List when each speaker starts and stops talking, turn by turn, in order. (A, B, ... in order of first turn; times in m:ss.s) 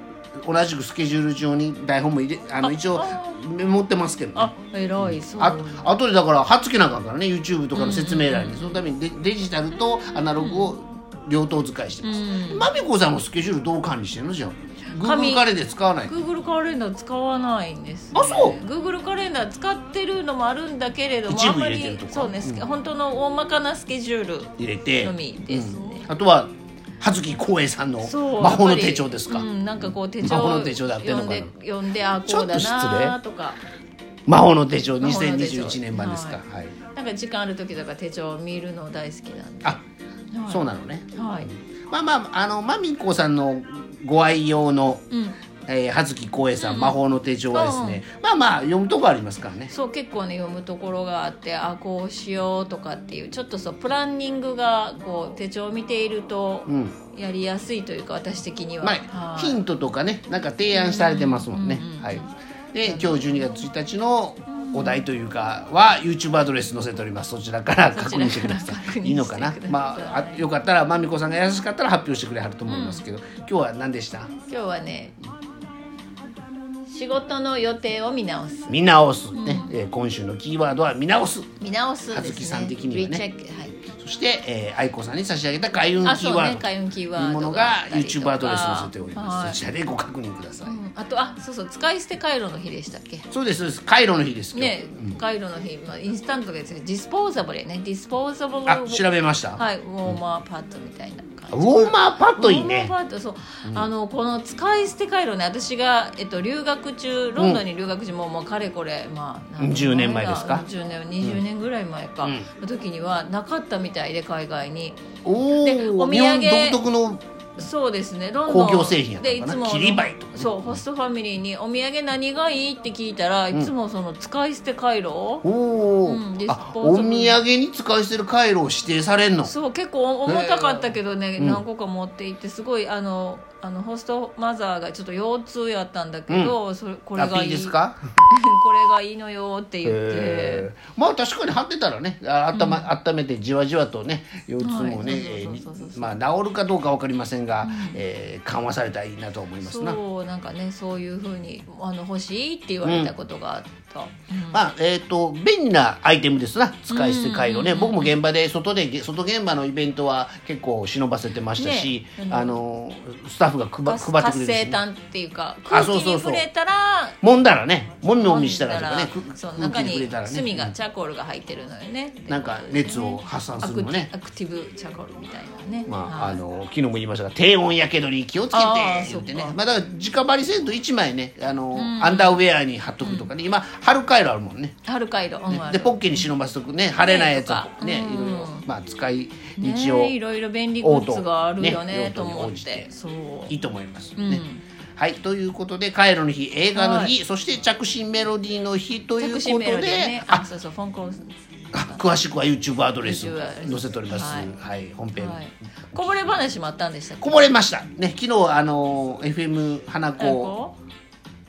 0:00.4-0:16.1 A
0:02.6-0:03.4 B
0:04.4-0:05.9 B
0:07.7-0:08.8 B
0:10.4-0:10.7 B
0:12.0-0:12.7 B
0:14.9-0:15.5 B
0:16.1-0:26.1 B
0:18.1-0:18.6 A
0:21.3-0:22.7 A
0:24.6-0:31.5 A
0:28.0-0:33.6 B
0:32.3-0:33.2 A
0:34.3-0:36.7 A
0:35.0-0:39.8 B
0:40.3-0:41.5 B
0:40.5-0:41.2 A
0:41.9-0:45.0 A
0:45.1-0:45.4 B
0:45.7-0:49.7 A
0:46.6-0:47.0 B
0:47.5-0:48.0 B
0:49.7-0:59.6 B
0:56.7-0:57.0 A
0:58.8-1:14.3 A
1:00.7-1:02.3 B
1:02.8-1:03.5 B
1:04.5-1:05.0 B
1:07.9-1:10.5 B
1:12.7-1:13.0 B
1:14.5-1:15.2 B
1:16.9-1:18.8 B
1:18.7-1:21.5 A
1:19.3-1:19.7 B
1:21.6-1:23.8 B
1:22.1-1:23.2 A
1:24.0-1:30.8 A
1:26.0-1:29.6 B
1:30.6-1:33.3 B
1:33.3-1:35.2 A
1:34.5-1:39.0 B
1:38.7-1:40.2 A
1:39.6-1:55.0 B
1:41.5-1:42.9 A
1:47.4-1:47.6 A
1:49.6-1:50.6 A
1:55.2-1:57.2 A
1:55.6-1:56.8 B
1:57.6-2:05.4 B
1:58.5-2:00.8 A
2:05.4-2:09.5 A
2:06.0-2:07.4 B
2:09.4-2:17.8 B
2:10.3-2:11.6 A
2:16.3-2:16.6 A
2:17.2-2:18.0 A
2:18.3-2:20.7 B
2:19.8-2:30.0 A
2:22.5-2:22.9 B
2:24.6-2:26.1 B
2:27.6-2:28.0 B
2:29.6-2:34.6 B
2:32.8-2:33.1 A
2:34.5-2:44.8 A
2:36.9-2:38.2 B
2:41.6-2:42.6 B
2:43.9-2:47.2 B
2:45.7-2:46.5 A
2:47.2-2:50.7 A
2:48.2-2:56.4 B
2:52.3-2:54.1 A
2:55.9-3:04.8 A
2:58.5-2:59.6 B
3:01.7-3:02.5 B
3:03.0-3:03.3 B
3:04.9-3:06.3 B
3:05.5-3:10.2 A
3:07.0-3:08.7 B
3:09.6-3:13.6 B
3:10.8-3:12.9 A
3:13.5-3:14.4 A
3:14.2-3:14.6 B
3:15.0-3:20.5 A
3:16.8-3:17.2 B
3:19.2-3:22.0 B
3:21.7-3:25.4 A
3:23.0-3:24.5 B
3:25.2-3:27.5 B
3:27.2-3:30.6 A
3:30.2-3:30.8 B